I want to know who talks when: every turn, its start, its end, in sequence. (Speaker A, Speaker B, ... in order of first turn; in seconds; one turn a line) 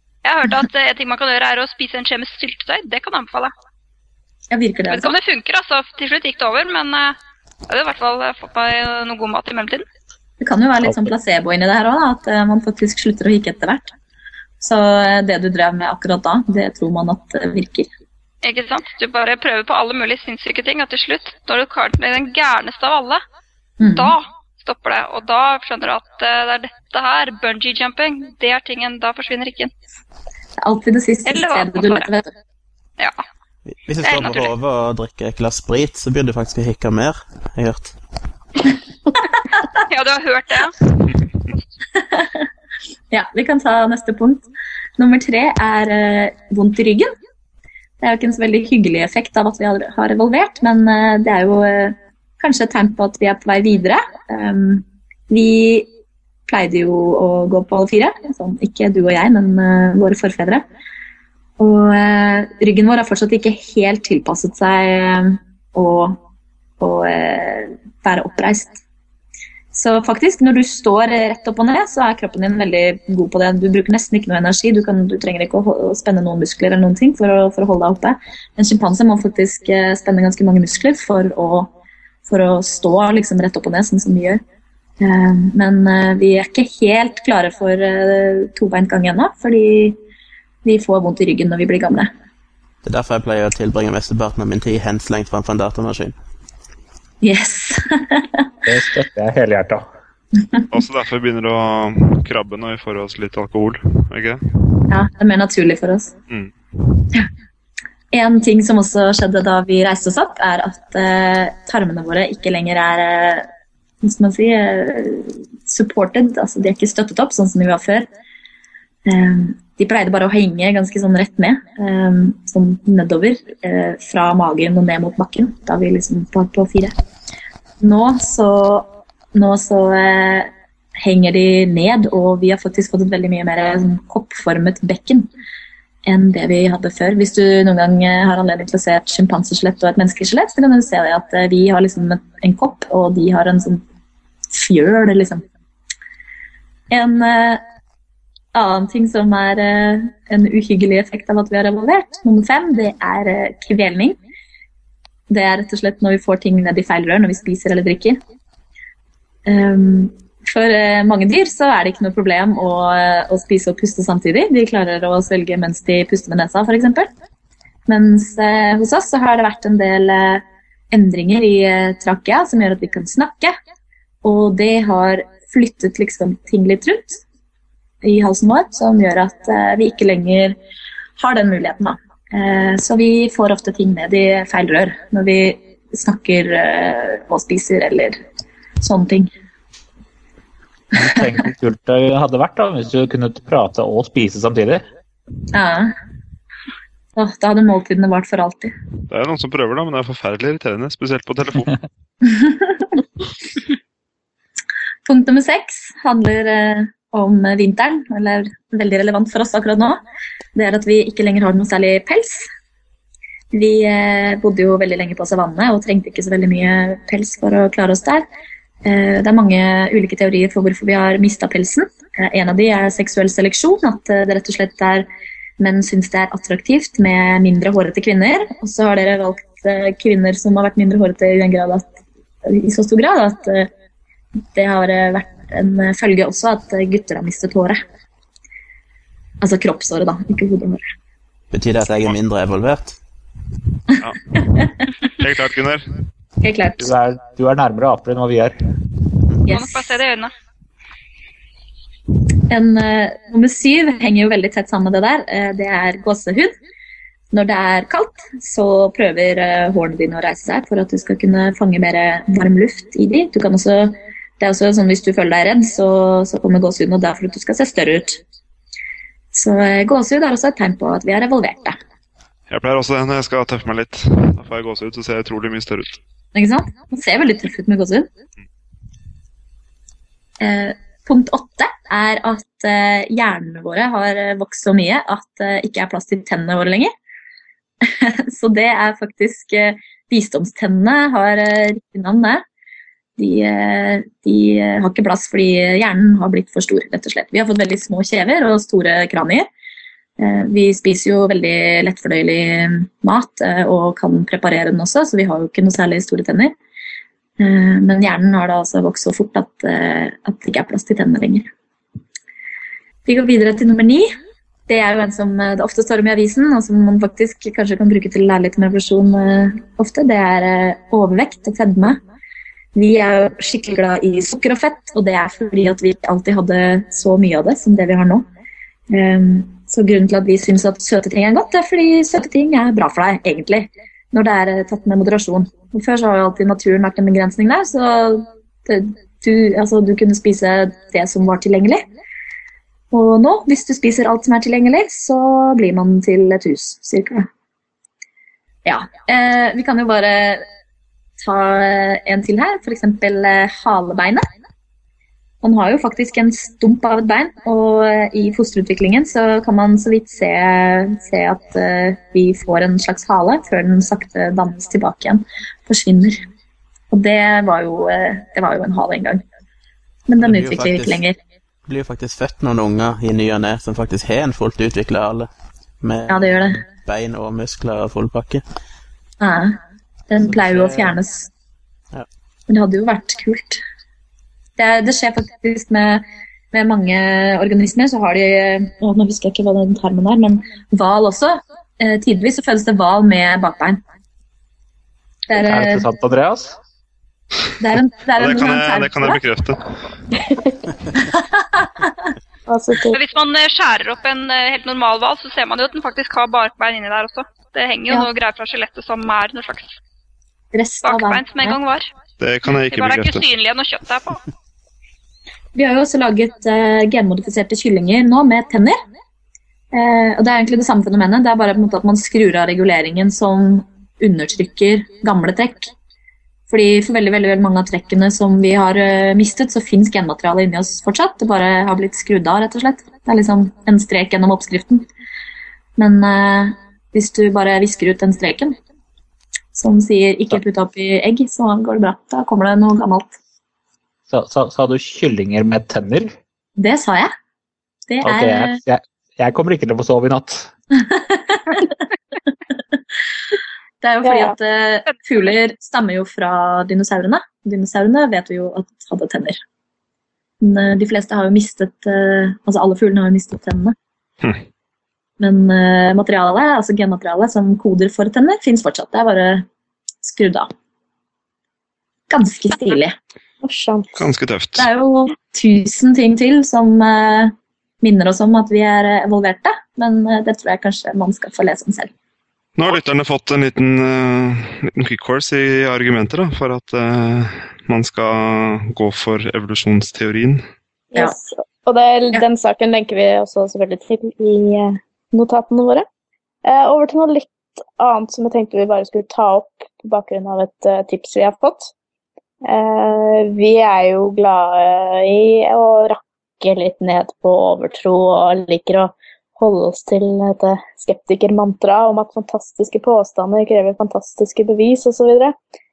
Speaker A: 0.2-3.5
Speaker B: 4.5-5.1
Speaker A: 4.9-7.2
Speaker A: 7.7-9.8
Speaker B: 10.4-13.9
Speaker B: 14.6-17.9
Speaker A: 18.4-23.2
Speaker B: 23.8-24.1
Speaker A: 23.9-29.7
Speaker B: 30.6-32.3
Speaker A: 31.3-32.1
Speaker C: 33.8-38.0
Speaker A: 34.0-34.5
Speaker A: 39.8-40.9
Speaker B: 42.0-42.4
Speaker B: 43.1-44.4
Speaker B: 45.0-47.1
Speaker B: 48.0-55.9
Speaker B: 56.5-60.6
Speaker B: 61.6-66.2
Speaker B: 66.8-68.8
Speaker B: 69.7-81.7
Speaker B: 82.2-84.4
Speaker B: 85.0-90.0
Speaker B: 90.6-92.1
Speaker C: 92.8-96.2
Speaker B: 97.2-98.4
Speaker D: 98.7-99.8
Speaker E: 100.7-104.4
Speaker B: 104.9-106.1
Speaker B: 108.1-113.5
Speaker B: 114.0-118.1
Speaker B: 119.0-126.9
Speaker B: 127.8-135.3
Speaker B: 136.1-143.8
Speaker B: 144.5-145.4
Speaker B: 146.9-147.6
Speaker B: 148.5-154.2
Speaker B: 155.3-158.2
Speaker B: 159.4-167.1
Speaker B: 167.9-173.5
Speaker B: 174.2-177.2
Speaker B: 178.0-180.6
Speaker B: 181.2-188.2
Speaker B: 188.8-189.3
Speaker D: 190.9-194.8
Speaker B: 195.5-195.9
Speaker B: 197.2-198.7
Speaker E: 199.1-201.7
Speaker B: 202.2-203.0
Speaker B: 205.1-210.0
Speaker B: 210.5-212.4
Speaker B: 213.5-218.2
Speaker B: 218.8-225.1
Speaker B: 225.6-231.9
Speaker B: 232.4-233.7
Speaker B: 234.5-237.8
Speaker B: 239.4-240.8
Speaker C: 241.5-243.0
Speaker E: 245.1-245.8
Speaker B: 246.4-246.9
Speaker D: 246.8-248.5
Speaker B: 249.5-249.9
Speaker A: 249.5-250.3
Speaker B: 252.5-256.6
Speaker B: 257.3-268.2
Speaker B: 269.3-271.8
Speaker E: 272.5-276.0
Speaker B: 276.3-278.1
Speaker B: 280.4-286.9
Speaker B: 287.8-292.4
Speaker B: 293.2-299.5
Speaker B: 300.2-306.5
Speaker B: 307.4-311.5
Speaker B: 313.1-314.1
Speaker B: 314.7-322.0
Speaker B: 322.7-328.2
Speaker B: 328.9-341.9
Speaker B: 342.9-347.3
Speaker B: 348.6-350.4
Speaker B: 351.2-354.2
Speaker B: 355.4-366.2
Speaker B: 366.9-369.2
Speaker B: 370.1-371.1
Speaker C: 370.2-371.0
Speaker C: 371.6-375.3
Speaker C: 375.8-378.4
Speaker B: 376.1-376.6
Speaker B: 379.2-379.6
Speaker B: 380.1-381.3
Speaker C: 380.2-380.9
Speaker B: 382.5-383.6
Speaker B: 384.6-393.8
Speaker B: 395.3-395.8
Speaker D: 395.4-396.6
Speaker B: 397.6-399.2
Speaker E: 398.2-399.8
Speaker B: 401.0-401.9
Speaker F: 402.5-403.0
Speaker A: 402.9-409.8
Speaker B: 410.5-411.6
Speaker A: 410.8-411.9
Speaker E: 412.2-413.3
Speaker A: 412.7-414.2
Speaker B: 415.5-418.8
Speaker B: 419.7-425.7
Speaker B: 426.5-434.9
Speaker B: 435.8-438.6
Speaker B: 439.5-443.1
Speaker D: 444.1-446.1
Speaker B: 446.6-447.1
Speaker B: 447.9-448.6
Speaker D: 448.0-450.5
Speaker B: 450.7-451.7
Speaker B: 453.8-459.4
Speaker F: 454.0-454.3
Speaker B: 460.4-463.7
Speaker B: 465.2-469.4
Speaker B: 470.0-470.5
Speaker B: 472.1-472.9
Speaker F: 473.4-474.1
Speaker E: 474.0-474.7
Speaker B: 474.6-481.9
Speaker E: 482.6-490.4
Speaker F: 490.9-495.9
Speaker F: 496.4-501.7
Speaker F: 502.4-515.3